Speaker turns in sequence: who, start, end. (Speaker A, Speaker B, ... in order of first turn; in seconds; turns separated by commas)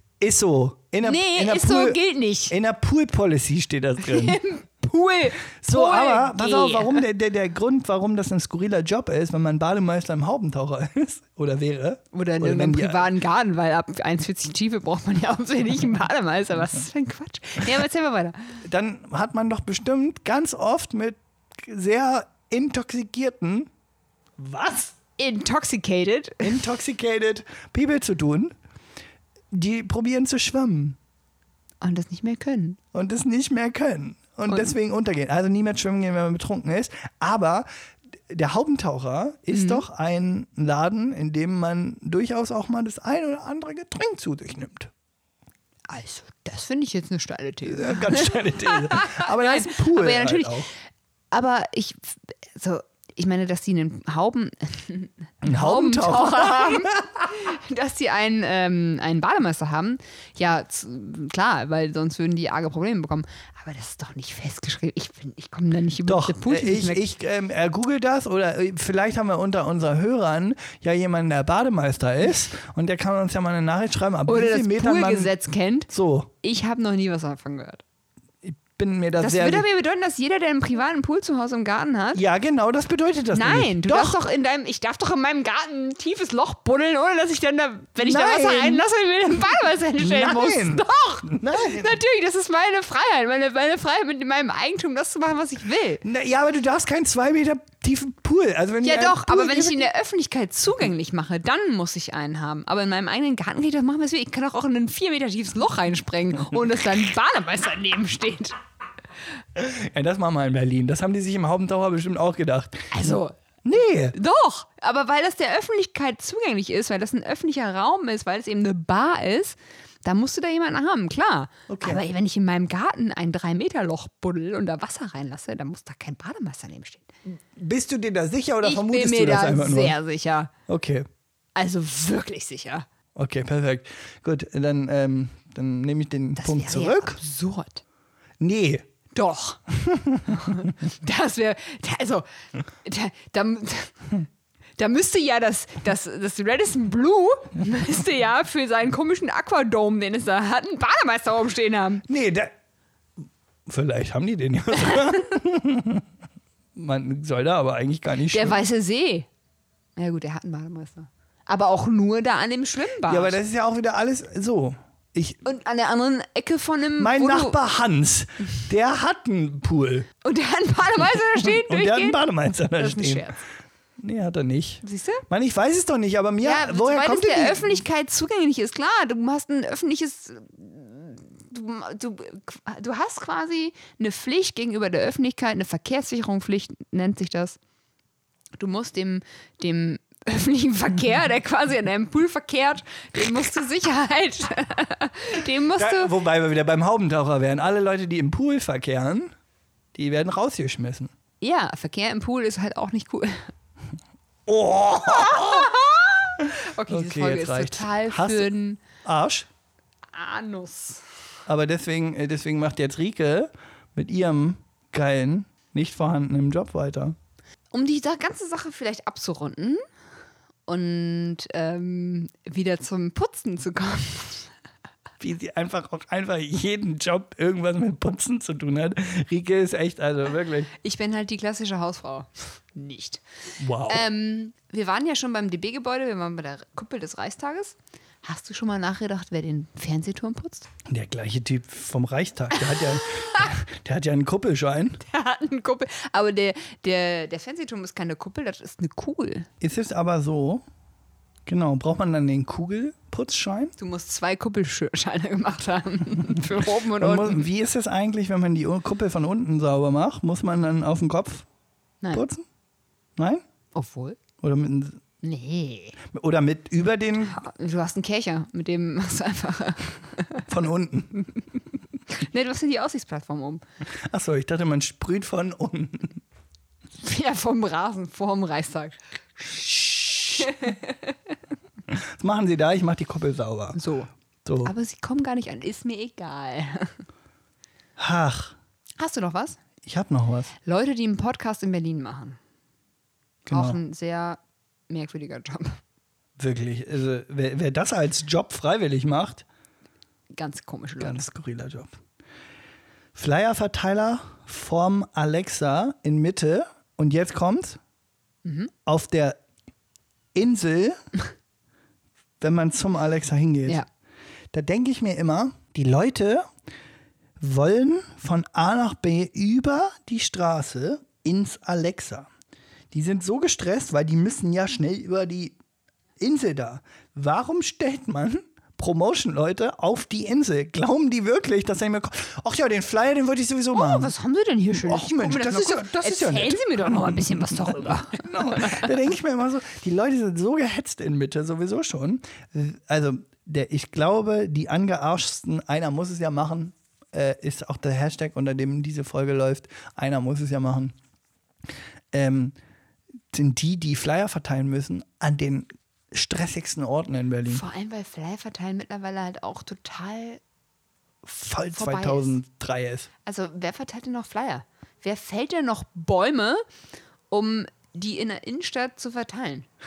Speaker A: 0.2-4.4, Speaker B: 1.0-2.5, Speaker B: 4.0-7.0, Speaker A: 5.6-13.1, Speaker B: 12.1-18.6, Speaker A: 18.6-23.7, Speaker A: 24.4-24.9, Speaker B: 25.2-26.6, Speaker A: 26.4-28.5, Speaker A: 29.5-31.0, Speaker B: 31.8-32.8, Speaker A: 32.9-37.7, Speaker B: 34.5-34.7, Speaker A: 38.3-44.9, Speaker B: 39.5-39.9, Speaker B: 45.9-50.6, Speaker A: 47.7-50.7, Speaker B: 51.3-67.0, Speaker A: 55.4-57.3, Speaker A: 66.1-75.3, Speaker B: 74.3-75.9, Speaker A: 75.9-76.3, Speaker B: 76.4-77.8, Speaker A: 78.4-79.7, Speaker B: 79.2-82.2, Speaker A: 82.2-84.2, Speaker B: 83.3-96.0, Speaker A: 88.0-88.9, Speaker A: 90.0-92.0, Speaker A: 96.0-99.9, Speaker B: 98.8-108.6, Speaker A: 109.5-114.2, Speaker B: 112.9-113.4, Speaker B: 114.1-127.1, Speaker A: 121.7-122.0, Speaker A: 127.3-130.0, Speaker B: 128.6-130.5, Speaker A: 130.7-131.1, Speaker B: 131.6-132.9, Speaker A: 133.2-137.2, Speaker B: 136.4-137.8, Speaker A: 138.4-138.9, Speaker B: 139.1-139.6, Speaker A: 139.7-140.5, Speaker B: 140.3-142.3, Speaker B: 142.8-144.2, Speaker B: 144.8-152.1, Speaker A: 152.1-152.5, Speaker A: 153.7-156.1, Speaker A: 156.8-158.6, Speaker B: 158.3-159.3, Speaker B: 160.0-163.4, Speaker A: 163.1-165.4, Speaker B: 165.4-167.6, Speaker A: 167.0-170.1, Speaker B: 170.2-172.2, Speaker A: 171.3-173.3, Speaker B: 172.8-173.4, Speaker A: 174.0-177.8, Speaker B: 174.8-175.2, Speaker B: 176.4-187.6, Speaker B: 188.6-196.2, Speaker A: 195.8-199.3, Speaker A: 199.9-201.1, Speaker B: 201.4-203.5, Speaker A: 204.5-205.7, Speaker B: 205.1-208.8, Speaker A: 206.4-209.5, Speaker B: 210.1-211.0, Speaker A: 211.5-217.2, Speaker B: 217.7-219.8, Speaker B: 220.7-224.5, Speaker A: 225.2-230.7, Speaker B: 230.8-233.2, Speaker A: 233.6-234.1, Speaker B: 233.9-240.7, Speaker A: 240.9-245.0, Speaker B: 245.0-249.5, Speaker A: 249.6-250.6, Speaker A: 251.5-253.7, Speaker B: 253.8-257.4, Speaker A: 257.0-261.5, Speaker A: 262.1-262.4, Speaker A: 263.2-263.4, Speaker B: 263.8-264.2, Speaker A: 264.4-265.0, Speaker B: 265.2-266.0, Speaker A: 266.1-267.4, Speaker B: 267.3-270.5, Speaker A: 270.5-271.2, Speaker B: 272.1-273.6, Speaker A: 274.0-276.2, Speaker B: 277.0-279.0, Speaker A: 279.4-280.7, Speaker B: 280.4-281.3, Speaker A: 281.9-283.8, Speaker B: 283.8-284.1, Speaker A: 284.4-284.7, Speaker B: 284.6-287.0, Speaker A: 288.0-288.6, Speaker B: 289.0-289.6, Speaker A: 289.8-290.5, Speaker B: 290.6-292.4, Speaker A: 293.5-293.8, Speaker B: 293.5-295.8, Speaker A: 296.4-299.4, Speaker B: 300.3-301.3, Speaker A: 301.0-302.0, Speaker A: 303.1-307.8, Speaker B: 308.4-308.7, Speaker A: 308.9-309.4, Speaker A: 310.3-311.0, Speaker A: 312.4-313.8, Speaker A: 314.5-316.5, Speaker A: 317.4-322.3, Speaker A: 322.9-325.6, Speaker A: 326.2-334.1, Speaker B: 333.7-338.9, Speaker A: 334.7-350.9, Speaker A: 352.1-352.6, Speaker A: 353.3-357.6, Speaker B: 357.5-360.4, Speaker A: 361.2-363.1, Speaker B: 361.7-362.4, Speaker B: 363.2-366.6, Speaker B: 367.3-369.7